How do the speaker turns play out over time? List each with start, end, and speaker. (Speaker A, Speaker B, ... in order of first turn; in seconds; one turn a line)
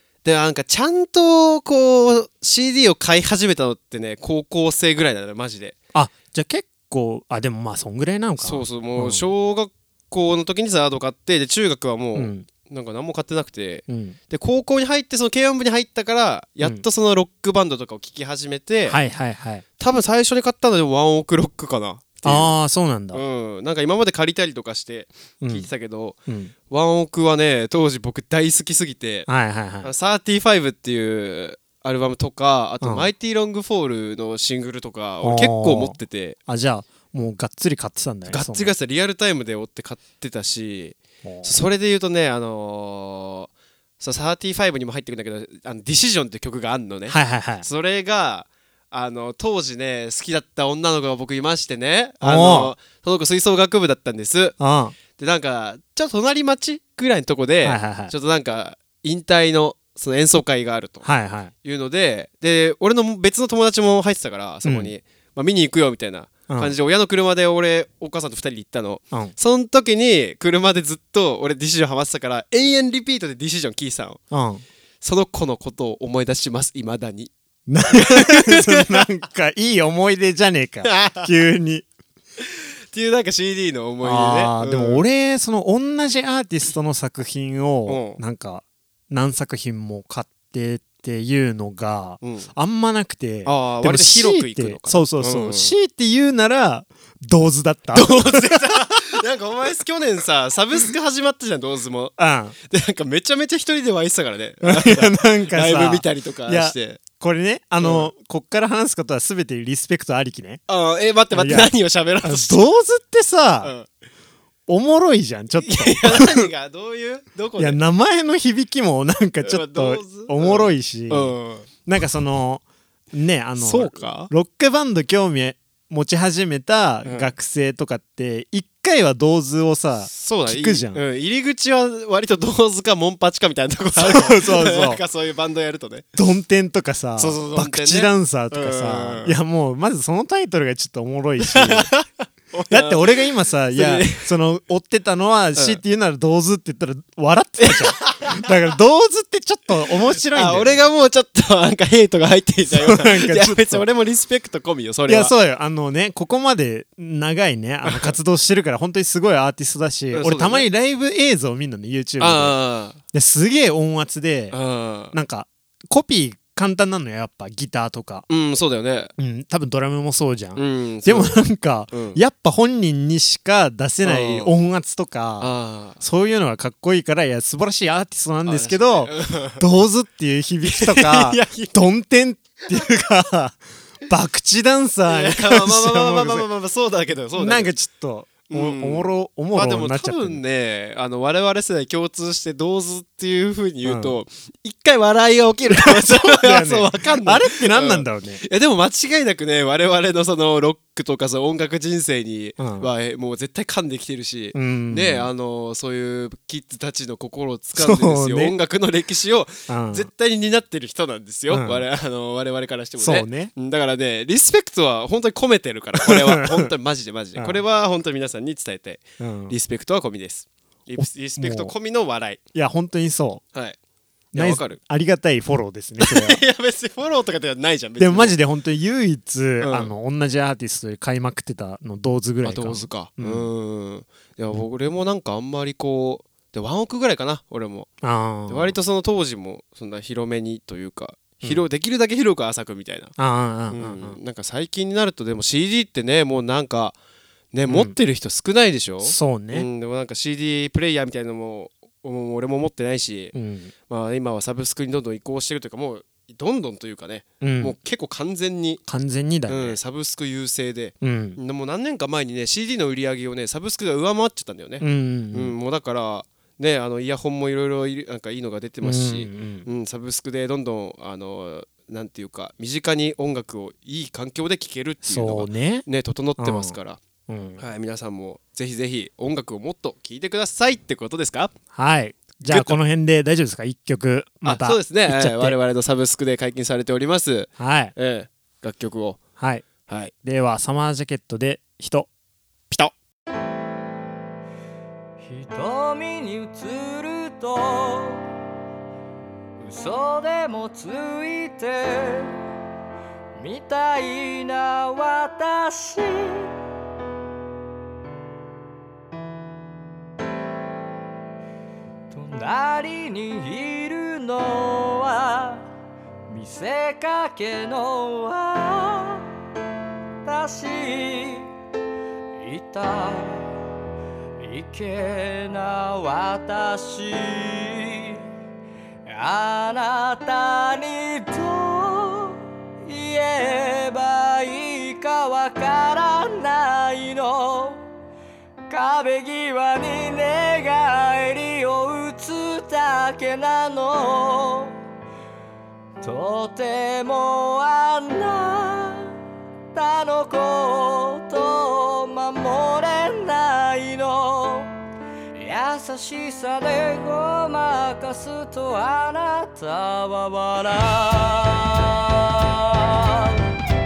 Speaker A: 0.2-5.7
Speaker B: 5.9-9.3
Speaker A: 8.4-19.0
Speaker B: 12.1-12.5
Speaker B: 13.9-14.2
Speaker B: 18.9-19.6
Speaker A: 19.8-22.5
Speaker B: 22.2-23.2
Speaker A: 23.1-29.3
Speaker B: 25.4-25.7
Speaker B: 29.3-29.9
Speaker A: 29.8-36.4
Speaker B: 32.8-33.1
Speaker B: 35.2-38.7
Speaker A: 38.3-54.5
Speaker B: 41.2-41.5
Speaker B: 47.1-47.6
Speaker B: 52.2-52.7
Speaker B: 54.6-54.9
Speaker A: 55.1-61.1
Speaker B: 57.6-58.1
Speaker B: 61.0-61.5
Speaker A: 61.6-74.2
Speaker B: 64.6-64.9
Speaker B: 66.5-66.7
Speaker B: 74.3-74.6
Speaker A: 75.0-77.3
Speaker B: 77.7-81.9
Speaker A: 77.9-79.1
Speaker A: 80.8-81.3
Speaker A: 82.4-85.0
Speaker B: 84.0-99.1
Speaker A: 87.9-88.2
Speaker A: 92.2-92.5
Speaker A: 93.5-95.7
Speaker A: 97.9-107.0
Speaker B: 102.2-102.5
Speaker B: 104.6-110.6
Speaker A: 107.8-108.1
Speaker A: 110.7-112.6
Speaker B: 111.3-111.7
Speaker B: 112.2-113.7
Speaker A: 113.6-113.9
Speaker B: 114.7-116.5
Speaker A: 115.6-117.8
Speaker B: 117.6-121.3
Speaker A: 119.4-121.7
Speaker B: 121.8-131.0
Speaker A: 123.6-124.3
Speaker A: 127.0-127.3
Speaker A: 130.1-136.1
Speaker B: 134.0-135.0
Speaker B: 136.1-141.9
Speaker A: 137.2-139.4
Speaker A: 141.4-144.3
Speaker B: 142.7-150.8
Speaker A: 145.6-145.8
Speaker A: 147.6-148.5
Speaker A: 150.3-155.3
Speaker B: 152.7-153.8
Speaker B: 155.1-162.6
Speaker A: 157.8-158.1
Speaker A: 160.1-160.7
Speaker A: 162.2-163.0
Speaker B: 163.1-164.6
Speaker A: 164.5-165.1
Speaker B: 165.1-168.3
Speaker A: 168.3-169.1
Speaker B: 169.2-186.4
Speaker A: 170.6-171.4
Speaker A: 171.9-172.2
Speaker A: 174.0-174.5
Speaker A: 175.4-176.0
Speaker A: 178.4-179.6
Speaker A: 180.7-181.7
Speaker A: 185.1-187.7
Speaker B: 187.4-190.4
Speaker A: 188.5-222.4
Speaker B: 193.8-194.1
Speaker B: 195.7-198.4
Speaker B: 202.6-202.9
Speaker B: 204.5-205.3
Speaker B: 207.8-208.5
Speaker B: 209.7-210.1
Speaker B: 211.5-211.8
Speaker B: 213.0-213.5
Speaker B: 216.0-216.7
Speaker B: 217.3-217.6
Speaker B: 219.2-219.5
Speaker B: 221.4-221.7
Speaker B: 222.5-223.4
Speaker A: 224.3-224.8
Speaker B: 224.3-226.4
Speaker A: 226.0-228.3
Speaker B: 228.0-233.5
Speaker A: 229.6-229.9
Speaker A: 232.4-237.9
Speaker B: 238.0-238.8
Speaker A: 238.5-243.1
Speaker B: 243.2-244.2
Speaker A: 243.7-246.9
Speaker A: 247.5-253.3
Speaker B: 247.7-247.9
Speaker B: 249.0-249.7
Speaker B: 253.3-253.7
Speaker A: 253.9-258.8
Speaker B: 257.4-257.7
Speaker B: 258.9-259.8
Speaker A: 259.5-277.0
Speaker B: 261.0-261.4
Speaker B: 264.8-265.5
Speaker B: 268.8-269.7
Speaker B: 275.0-275.9
Speaker B: 276.4-277.6
Speaker A: 277.6-281.5
Speaker B: 281.7-285.6
Speaker A: 282.4-282.8
Speaker A: 284.4-289.2
Speaker B: 287.6-287.9
Speaker B: 289.4-289.7
Speaker A: 289.9-290.1
Speaker B: 290.2-292.1
Speaker C: 295.2-298.3
Speaker C: 299.6-302.4
Speaker C: 303.4-306.5
Speaker C: 312.1-315.7
Speaker C: 316.3-319.3
Speaker C: 320.2-321.5
Speaker C: 322.4-323.5
Speaker C: 324.4-328.2
Speaker C: 329.1-337.8
Speaker C: 338.7-344.8
Speaker C: 346.0-349.1
Speaker C: 349.7-354.7
Speaker C: 355.3-363.4